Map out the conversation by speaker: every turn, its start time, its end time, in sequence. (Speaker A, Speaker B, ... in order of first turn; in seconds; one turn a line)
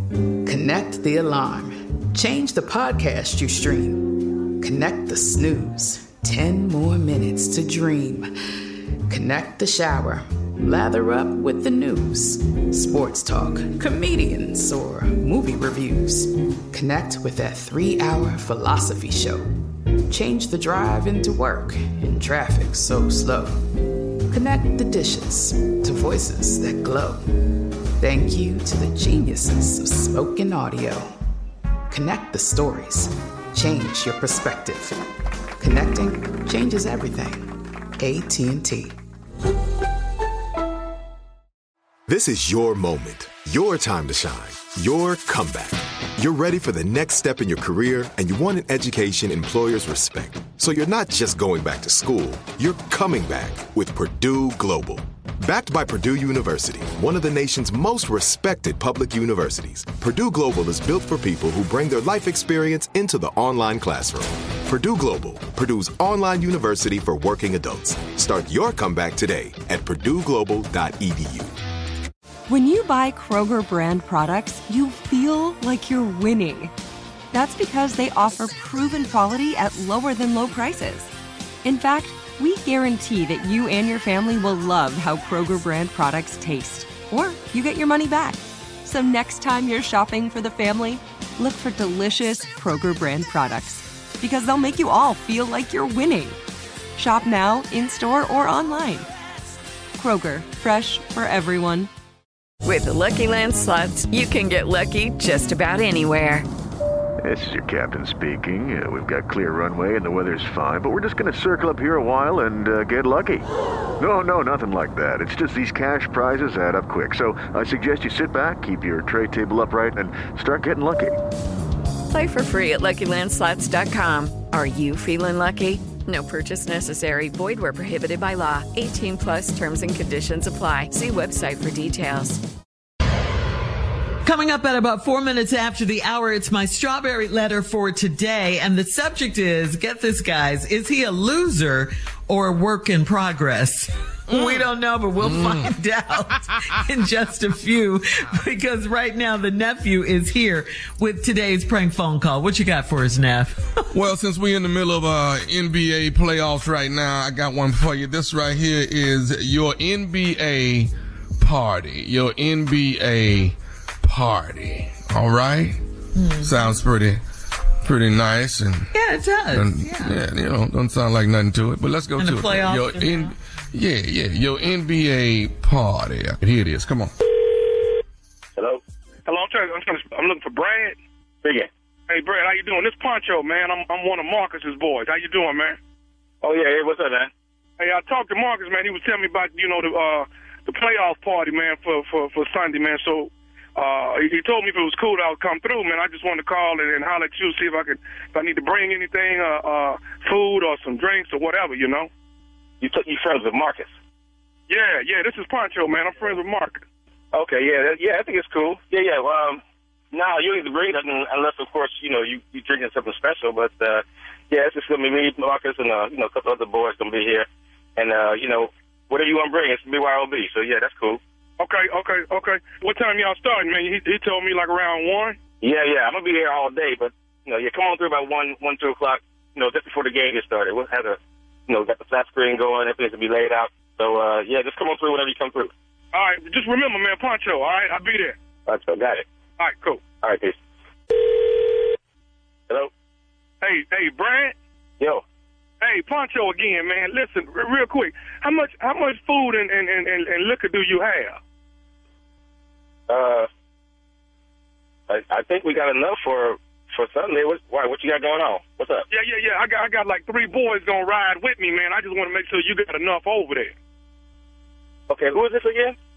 Speaker A: 0.5-8.3
Speaker A: 9.1-19.4
Speaker A: 20.1-23.5
Speaker A: 24.3-27.2
Speaker A: 28.0-31.1
Speaker A: 31.9-34.9
Speaker A: 35.6-37.5
Speaker A: 38.0-38.9
Speaker B: 42.1-71.5
Speaker C: 72.5-76.7
Speaker C: 77.3-81.1
Speaker C: 81.6-96.3
Speaker C: 97.0-99.1
Speaker C: 100.0-101.9
Speaker D: 102.6-106.5
Speaker E: 107.2-113.4
Speaker E: 114.0-121.1
Speaker D: 122.1-132.4
Speaker F: 134.2-153.8
Speaker G: 144.3-144.6
Speaker G: 145.2-145.8
Speaker G: 153.9-167.2
Speaker F: 166.2-166.7
Speaker G: 167.8-168.9
Speaker F: 168.9-170.2
Speaker G: 169.4-177.1
Speaker F: 172.2-173.3
Speaker H: 179.2-181.0
Speaker I: 181.4-181.7
Speaker H: 182.1-185.8
Speaker I: 186.4-187.3
Speaker H: 187.8-202.1
Speaker I: 202.8-203.9
Speaker H: 204.7-206.8
Speaker I: 207.3-209.6
Speaker I: 210.1-221.2
Speaker H: 221.6-225.4
Speaker I: 225.6-235.7
Speaker H: 236.1-238.3
Speaker I: 238.7-239.2
Speaker H: 239.6-240.0
Speaker I: 240.1-240.6
Speaker H: 243.6-244.5
Speaker H: 245.8-251.4
Speaker I: 253.1-253.5
Speaker I: 255.1-259.0
Speaker H: 259.1-263.7
Speaker I: 265.1-265.9